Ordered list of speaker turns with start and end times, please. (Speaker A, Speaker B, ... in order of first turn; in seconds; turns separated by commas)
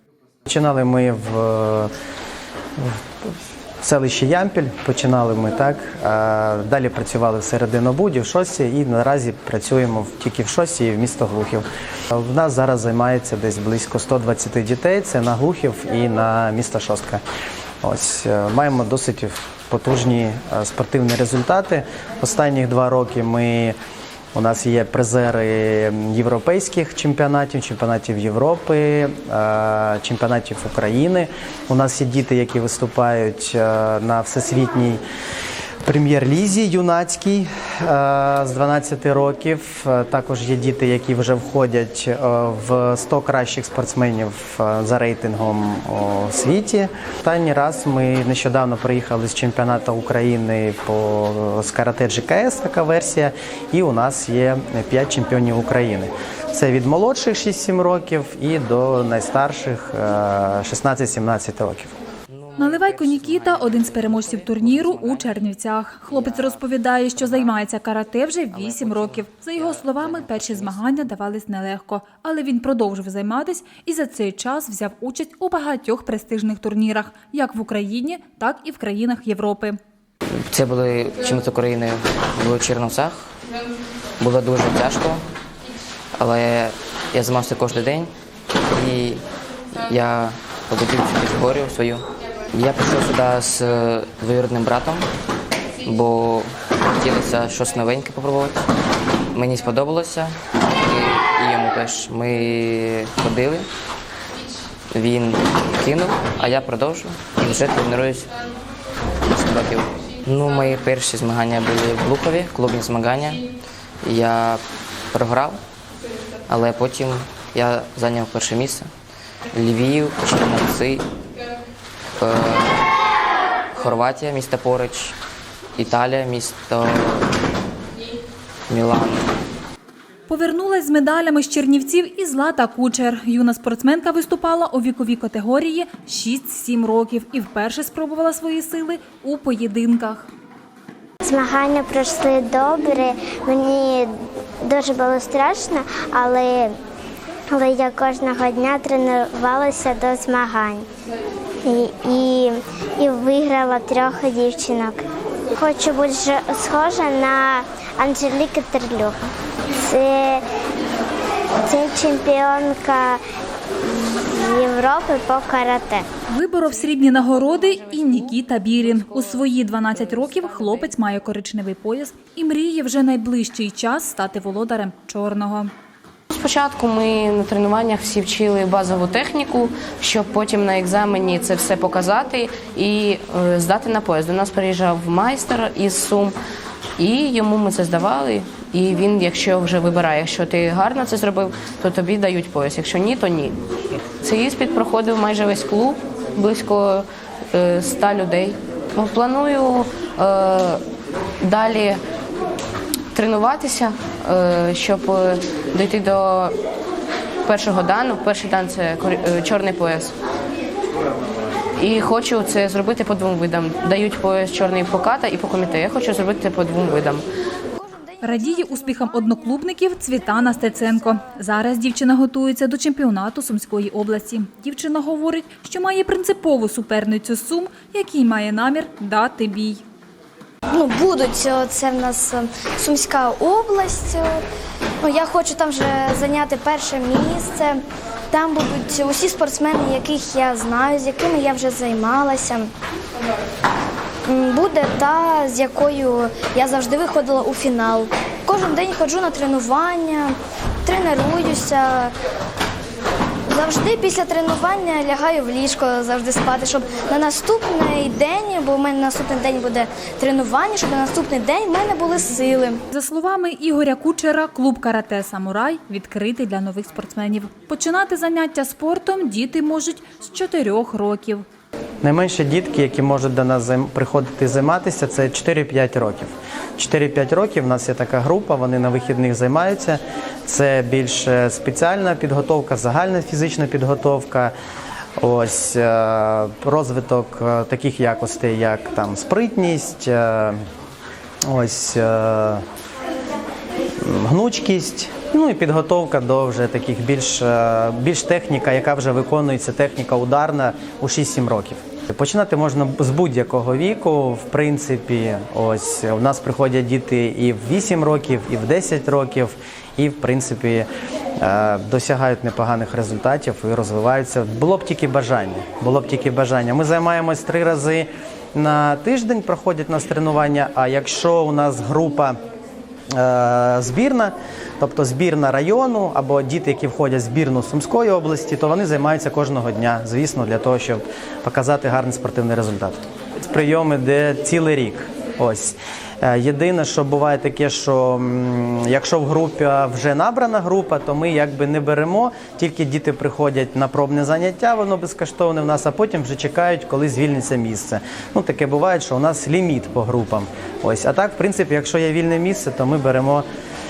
Speaker A: 0.5-1.9, Speaker A: 3.8-17.2, Speaker A: 17.8-23.7, Speaker A: 24.3-35.0, Speaker A: 35.8-62.0, Speaker B: 62.3-65.4, Speaker C: 62.6-79.8, Speaker B: 66.0-66.6, Speaker B: 67.1-67.5, Speaker B: 68.5-70.8, Speaker B: 80.5-83.3, Speaker B: 84.2-85.2, Speaker B: 86.1-88.1, Speaker B: 88.7-89.2, Speaker B: 89.7-95.1, Speaker B: 95.8-98.7, Speaker B: 99.3-103.7, Speaker B: 104.9-108.3, Speaker B: 109.3-113.4, Speaker B: 114.0-115.6, Speaker B: 116.5-118.9, Speaker B: 119.5-121.1, Speaker B: 122.2-122.8, Speaker B: 123.7-125.2, Speaker B: 125.7-127.3, Speaker B: 128.7-129.3, Speaker C: 130.3-140.3, Speaker D: 141.2-146.8, Speaker D: 147.5-150.9, Speaker D: 151.6-160.4, Speaker D: 161.6-163.2, Speaker D: 163.8-166.1, Speaker C: 166.3-175.7, Speaker E: 166.7-170.9, Speaker E: 176.3-186.3, Speaker E: 187.0-193.6, Speaker E: 194.2-200.8, Speaker E: 201.4-202.0, Speaker E: 203.1-206.5, Speaker E: 207.4-210.1, Speaker E: 211.8-217.2, Speaker F: 217.8-221.2, Speaker C: 218.2-229.8, Speaker F: 230.7-234.4, Speaker F: 235.0-237.8, Speaker F: 238.3-242.7, Speaker F: 244.3-250.3, Speaker F: 250.8-252.1, Speaker F: 253.5-262.8, Speaker C: 262.9-271.4, Speaker A: 272.0-284.5, Speaker A: 285.2-290.6, Speaker A: 291.5-292.6, Speaker A: 294.0-310.9, Speaker A: 311.4-322.4, Speaker A: 323.1-353.4